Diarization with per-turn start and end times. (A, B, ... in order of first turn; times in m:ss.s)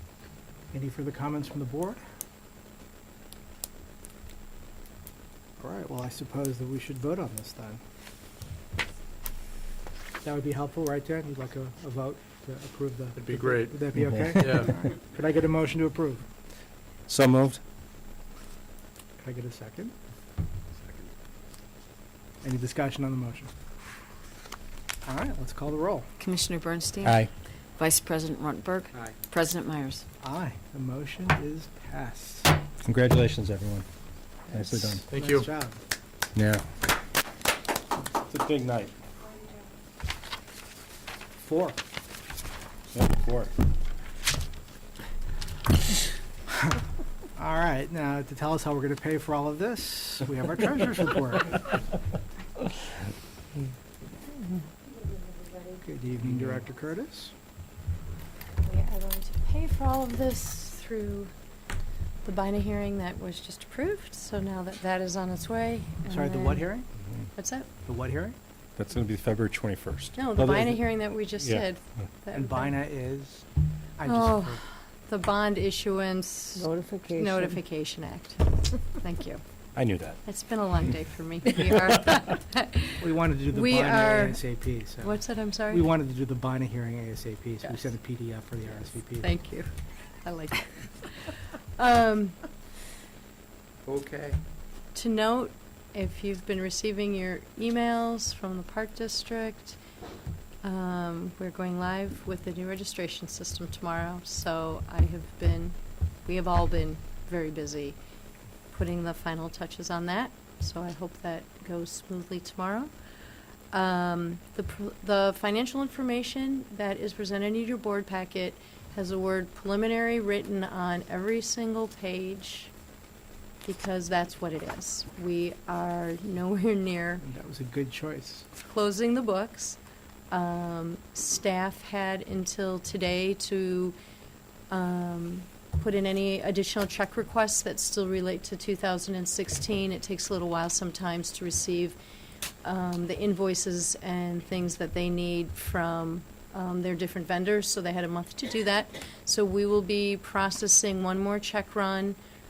0:00.7-0:02.0 A
0:05.6-0:07.8 A
0:10.2-0:16.2 A
0:13.2-0:13.8 B
0:14.4-0:14.9 B
0:17.1-0:17.6 C
0:19.2-0:19.9 A
0:20.7-0:21.1 B
0:22.4-0:23.5 A
0:25.0-0:26.1 A
0:26.2-0:27.2 D
0:27.0-0:27.3 C
0:27.8-0:30.0 D
0:28.9-0:29.2 B
0:30.2-0:32.5 A
0:32.8-0:33.8 C
0:34.5-0:35.0 C
0:34.5-0:35.8 A
0:35.1-0:35.5 B
0:36.3-0:36.6 C
0:38.2-0:38.9 C
0:41.4-0:41.8 A
0:42.9-0:43.5 C
0:46.5-0:46.8 A
0:47.4-0:51.6 A
0:55.8-0:57.3 A
0:56.2-0:56.6 C
0:58.6-1:01.3 E
1:02.2-1:06.7 E
1:06.0-1:06.9 A
1:07.4-1:07.7 E
1:07.8-1:08.4 A
1:08.8-1:10.8 C
1:10.2-1:12.7 E
1:12.3-1:13.4 A
1:14.0-1:14.6 A
1:14.0-1:19.4 E
1:16.7-1:17.2 D
1:19.8-1:20.2 C
1:20.2-1:24.4 E
1:23.0-1:29.3 A
1:25.0-1:25.8 E
1:29.2-1:29.7 E
1:30.2-1:32.4 E
1:33.8-1:34.4 B
1:34.9-1:39.8 E
1:40.6-1:48.0 E
1:48.7-1:52.9 E
1:53.7-2:02.7 E
2:03.6-2:07.2 E
2:07.2-2:08.4 A
2:08.6-2:09.8 E
2:10.3-2:14.0 E
2:14.7-2:22.0 E
2:22.6-2:32.2 E